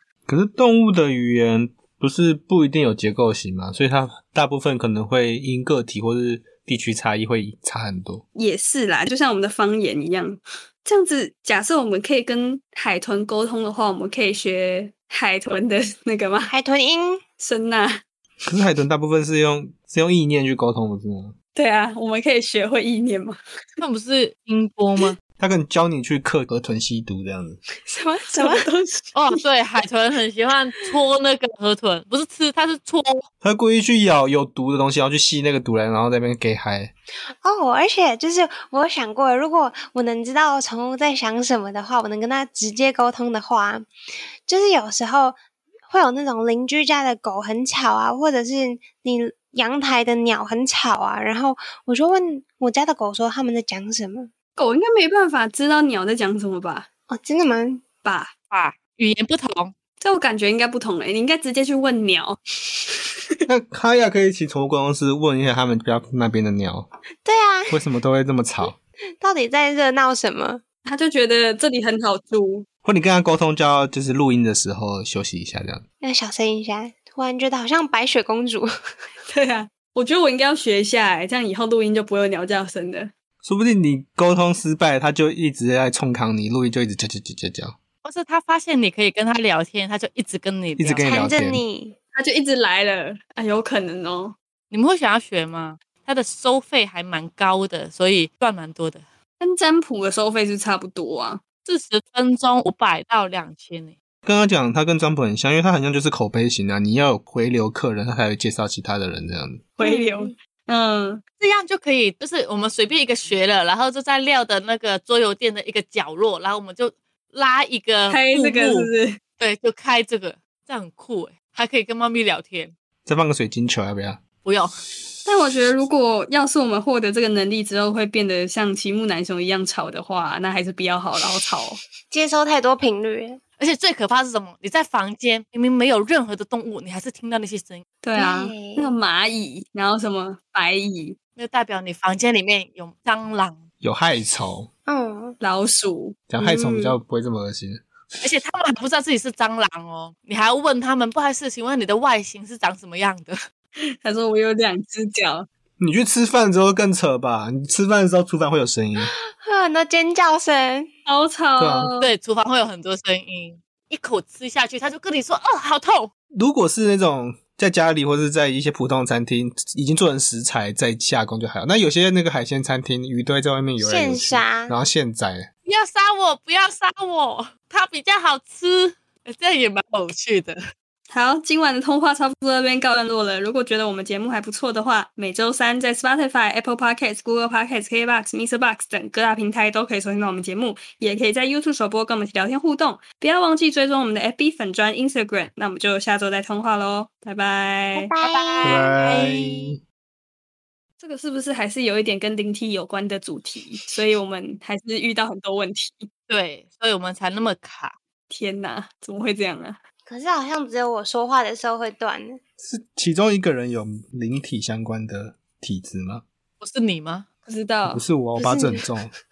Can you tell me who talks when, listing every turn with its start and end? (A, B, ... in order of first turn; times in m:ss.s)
0:00.3-0:08.2 A
0:08.4-0:16.5 B
0:16.5-0:17.2 C
0:17.4-0:18.0 B
0:18.4-0:21.4 A
0:21.6-0:23.4 B
0:23.8-0:25.2 D
0:25.4-0:27.6 A
0:27.9-0:28.7 C
0:28.3-0:29.4 B
0:29.1-0:33.2 D
0:33.4-0:36.9 A
0:37.4-0:43.9 C
0:44.5-0:45.4 C
0:45.9-0:54.3 C
0:54.6-0:56.9 B
0:57.1-0:57.8 C
0:58.0-0:58.3 B
0:58.5-0:59.8 D
1:00.0-1:03.0 B
1:03.5-1:06.9 A
1:07.2-1:07.8 C
1:07.7-1:08.8 A
1:09.2-1:10.6 C
1:10.9-1:12.7 B
1:12.8-1:15.8 A
1:16.0-1:18.7 C
1:19.3-1:23.1 B
1:23.4-1:27.8 A
1:28.0-1:31.1 D
1:30.8-1:31.6 A
1:31.0-1:32.0 C
1:32.2-1:34.4 B
1:34.7-1:39.0 D
1:39.4-1:41.4 B
1:41.6-1:43.9 D
1:44.2-1:49.6 A
1:49.8-1:51.2 B
1:49.8-1:50.3 C
1:51.4-2:02.7 D
1:58.1-1:59.2 B
2:03.1-2:04.2 A
2:04.4-2:04.7 D
2:05.2-2:11.8 B
2:12.1-2:13.4 C
2:13.6-2:17.8 D
2:18.0-2:21.2 B
2:18.2-2:18.9 C
2:21.4-2:23.6 D
2:23.8-2:24.7 A
2:24.9-2:25.4 C
2:25.4-2:27.0 B
2:26.3-2:27.8 A
2:28.2-2:33.4 D
2:34.0-2:35.5 B
2:35.8-2:39.2 A
2:39.0-2:40.9 C
2:41.1-2:42.1 B
2:41.6-2:41.9 A
2:42.0-2:46.1 D
2:46.3-2:55.5 A
2:53.8-2:54.8 C
2:55.7-3:00.6 D
3:01.1-3:18.1 B
3:18.0-3:18.9 C
3:18.2-3:19.7 D
3:18.6-3:19.8 A
3:21.0-3:26.1 B
3:26.3-3:27.9 D
3:28.3-3:29.8 B
3:30.1-3:32.4 C
3:32.6-3:36.2 A
3:36.6-3:37.3 D
3:37.5-3:38.0 B
3:37.9-3:39.1 A
3:38.4-3:38.8 C